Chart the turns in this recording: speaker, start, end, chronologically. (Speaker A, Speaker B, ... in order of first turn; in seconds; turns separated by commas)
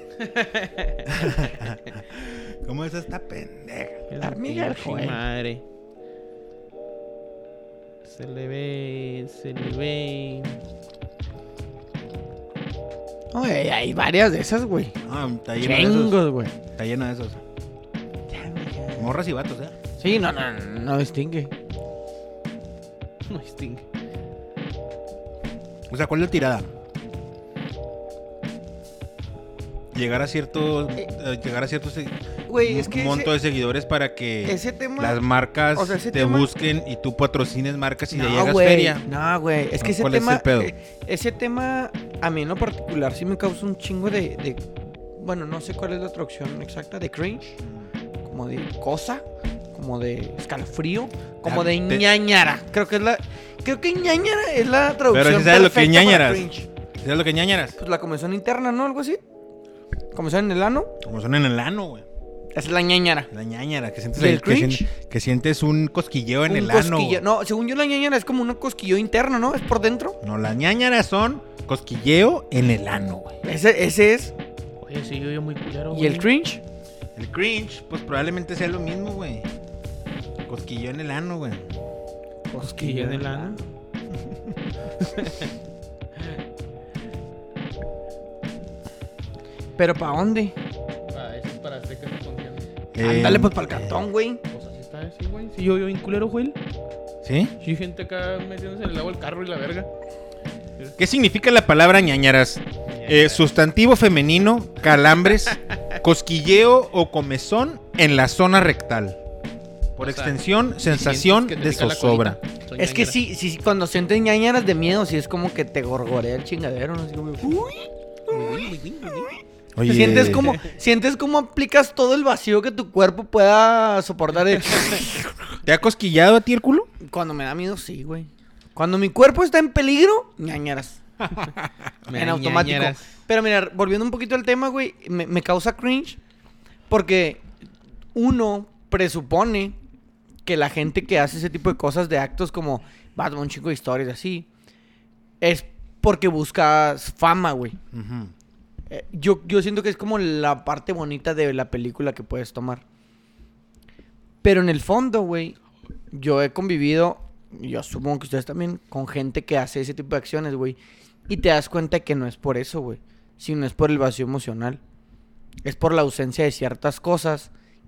Speaker A: 0.2-1.1, Speaker B: 1.1-4.1, Speaker A: 4.1-5.6, Speaker C: 4.2-5.2, Speaker A: 8.0-10.6, Speaker C: 13.3-14.9, Speaker B: 15.0-17.4, Speaker C: 15.6-16.5, Speaker C: 18.3-19.2, Speaker B: 19.0-19.7, Speaker C: 20.0-21.5, Speaker A: 23.3-23.8, Speaker B: 25.9-26.7, Speaker B: 29.9-39.0, Speaker C: 32.5-33.3, Speaker C: 34.5-35.2, Speaker C: 35.7-36.5, Speaker C: 38.1-47.5, Speaker B: 39.8-40.7, Speaker C: 48.2-49.2, Speaker C: 49.7-56.7, Speaker B: 51.5-52.1, Speaker B: 55.1-56.5, Speaker B: 57.0-57.8, Speaker C: 57.8-59.2, Speaker C: 60.1-60.9, Speaker B: 61.0-62.0, Speaker C: 62.5-63.3, Speaker B: 63.3-67.2, Speaker C: 64.1-64.9, Speaker C: 66.5-70.2, Speaker B: 70.2-73.3, Speaker C: 73.4-74.3, Speaker A: 74.8-76.3, Speaker C: 75.9-76.6, Speaker B: 77.2-79.5, Speaker B: 80.5-81.6, Speaker C: 82.5-83.6, Speaker A: 82.6-83.7, Speaker A: 85.0-85.5, Speaker C: 89.8-90.5, Speaker A: 91.1-92.7, Speaker B: 92.9-94.0, Speaker C: 93.0-94.4, Speaker A: 94.5-96.6, Speaker B: 97.2-97.5, Speaker A: 97.6-99.9, Speaker B: 101.0-109.2, Speaker A: 102.8-103.4, Speaker A: 105.5-105.8, Speaker B: 110.0-112.4, Speaker A: 110.0-113.2, Speaker C: 112.8-118.7, Speaker A: 118.3-119.4, Speaker B: 119.8-120.6, Speaker C: 119.8-125.3, Speaker A: 120.2-120.6, Speaker B: 125.6-126.9, Speaker C: 127.0-131.0, Speaker A: 132.1-133.0, Speaker C: 132.1-136.2, Speaker C: 136.9-137.4, Speaker C: 138.2-139.8, Speaker C: 140.5-144.5, Speaker C: 145.4-147.8, Speaker B: 147.9-148.3, Speaker C: 148.9-152.8, Speaker C: 154.4-155.6, Speaker C: 156.1-164.8, Speaker C: 165.6-167.5